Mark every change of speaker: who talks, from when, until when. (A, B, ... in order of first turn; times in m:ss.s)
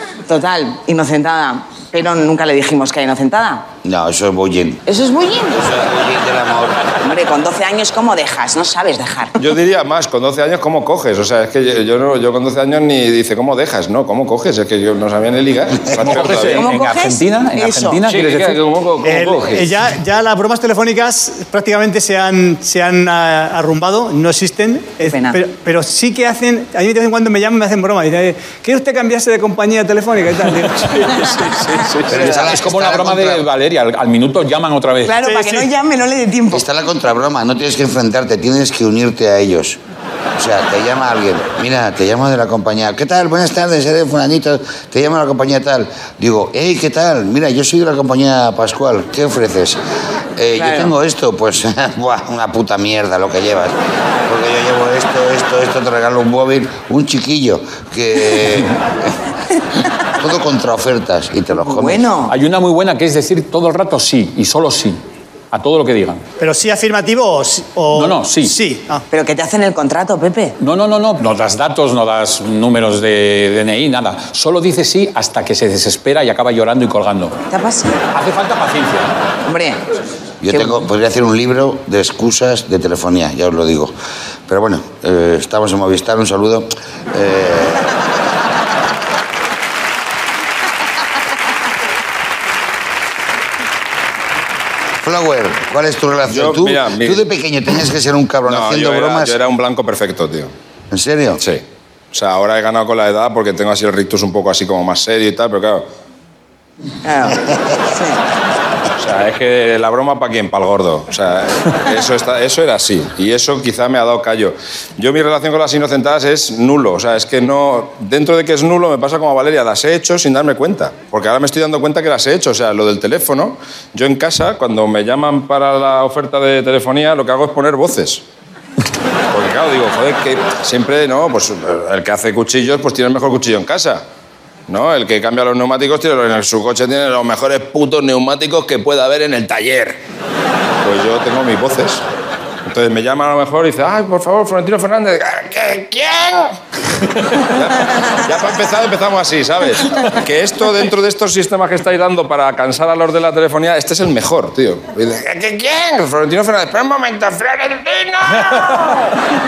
0:00.3-0:03.6 A
0:03.8-0:04.8 B
0:04.9-0:05.6 A
0:05.5-0:06.8 B
0:07.0-0:09.3 A
0:09.4-0:16.7 C
0:15.9-0:19.5 D
0:16.2-0:18.0 A
0:18.1-0:19.7 C
0:19.0-0:31.2 E
0:25.0-0:25.4 A
0:30.8-0:35.2 D
0:32.1-0:33.4 B
0:32.1-0:32.5 A
0:35.0-0:36.6 A
0:35.2-0:35.7 E
0:36.5-0:39.8 B
0:40.4-0:49.8 B
0:50.4-0:53.7 B
0:50.6-0:50.9 A
0:54.3-0:58.8 B
1:00.2-1:02.1 B
1:01.7-1:02.3 A
1:02.3-1:05.0 D
1:05.5-1:06.2 D
1:06.4-1:09.0 E
1:07.9-1:08.5 D
1:09.1-1:10.5 A
1:10.6-1:17.3 D
1:17.5-1:18.0 A
1:18.1-1:19.1 D
1:19.4-1:19.8 A
1:20.4-1:23.9 B
1:20.5-1:20.8 A
1:24.5-1:27.9 B
1:35.0-1:39.4 B
1:36.3-1:37.2 C
1:38.4-1:40.5 C
1:40.9-1:41.4 B
1:41.4-1:45.8 C
1:47.0-1:48.2 A
1:49.0-2:08.2 C
2:09.3-2:14.0 C
2:14.7-2:20.0 C
2:20.8-2:22.0 C
2:22.7-2:26.6 C
2:27.4-2:39.0 C